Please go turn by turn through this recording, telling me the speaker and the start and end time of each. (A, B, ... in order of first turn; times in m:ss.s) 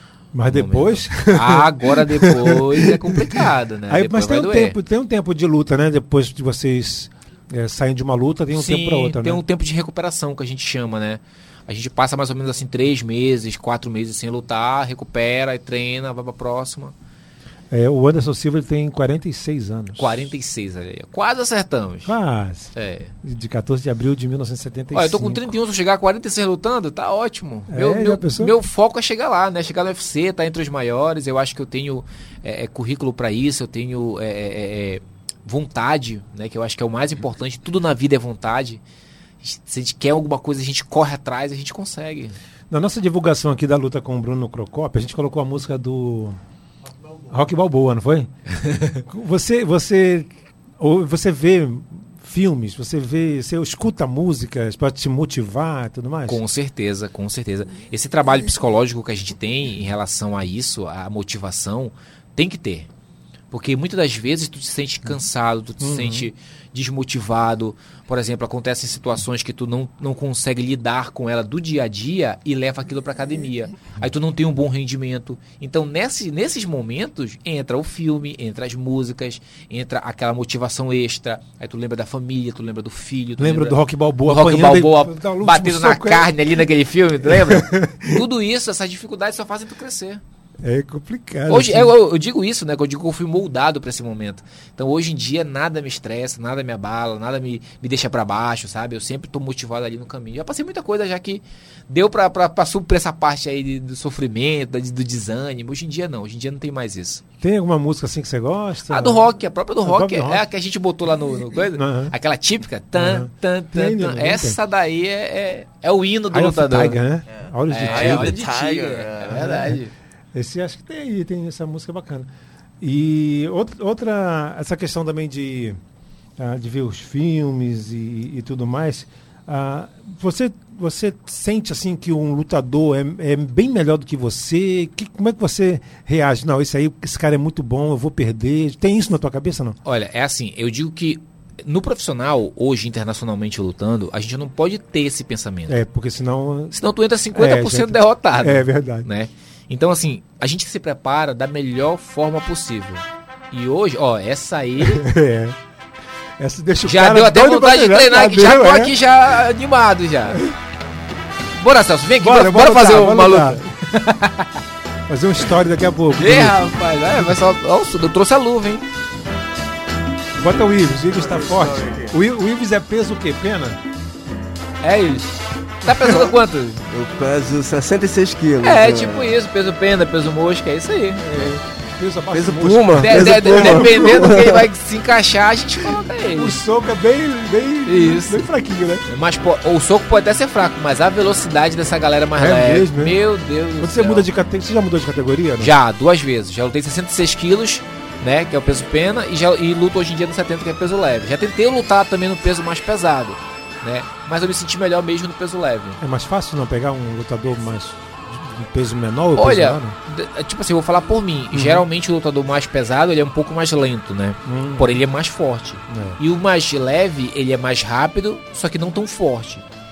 0:00.3-0:09.4 A
0:00.5-0:04.8 B
0:08.5-0:16.9 B
0:17.7-0:20.3 A
0:20.0-0:22.1 B
0:22.0-0:25.6 A
0:22.7-0:23.1 B
0:24.9-0:38.8 B
0:27.7-0:28.5 A
0:39.4-0:42.4 B
0:42.7-0:46.4 A
0:47.2-0:48.3 A
0:48.9-0:56.4 A
0:56.3-1:02.9 B
1:03.5-1:30.2 B
1:05.8-1:06.3 A
1:23.4-1:26.4 A
1:27.2-1:28.2 A
1:30.6-1:31.9 A
1:31.5-1:47.2 B
1:47.4-1:50.4 A
1:48.9-1:57.0 B
1:51.7-1:52.1 A
1:52.9-1:54.6 A
1:56.3-1:58.4 A
1:57.3-1:59.5 C
1:57.7-1:59.9 B
1:59.3-1:59.8 A
2:00.3-2:02.3 A
2:02.8-2:05.8 A
2:06.4-2:19.8 A
2:19.8-2:25.7 B
2:25.7-2:26.8 A
2:26.7-2:35.0 B
2:27.3-2:29.1 A
2:34.8-2:35.6 A
2:36.4-2:38.9 A
2:36.8-2:40.4 B
2:40.3-2:40.6 A
2:41.6-2:44.5 B
2:42.2-2:43.6 A
2:45.1-2:46.6 A
2:46.2-2:48.9 B
2:50.4-2:53.8 A
2:51.6-2:52.0 C
2:54.8-2:56.8 B
2:55.9-2:56.2 A
2:56.9-2:59.3 C
2:58.6-3:01.2 B
3:01.2-3:04.6 A
3:02.3-3:04.6 C
3:03.0-3:06.6 B
3:06.4-3:09.1 A
3:07.9-3:08.5 B
3:09.1-3:14.3 B
3:12.4-3:13.2 A
3:13.8-3:15.7 A
3:15.6-3:26.0 B
3:26.0-3:30.0 A
3:29.4-3:39.6 B
3:31.5-3:31.8 A
3:34.4-3:34.9 A
3:35.9-3:36.2 A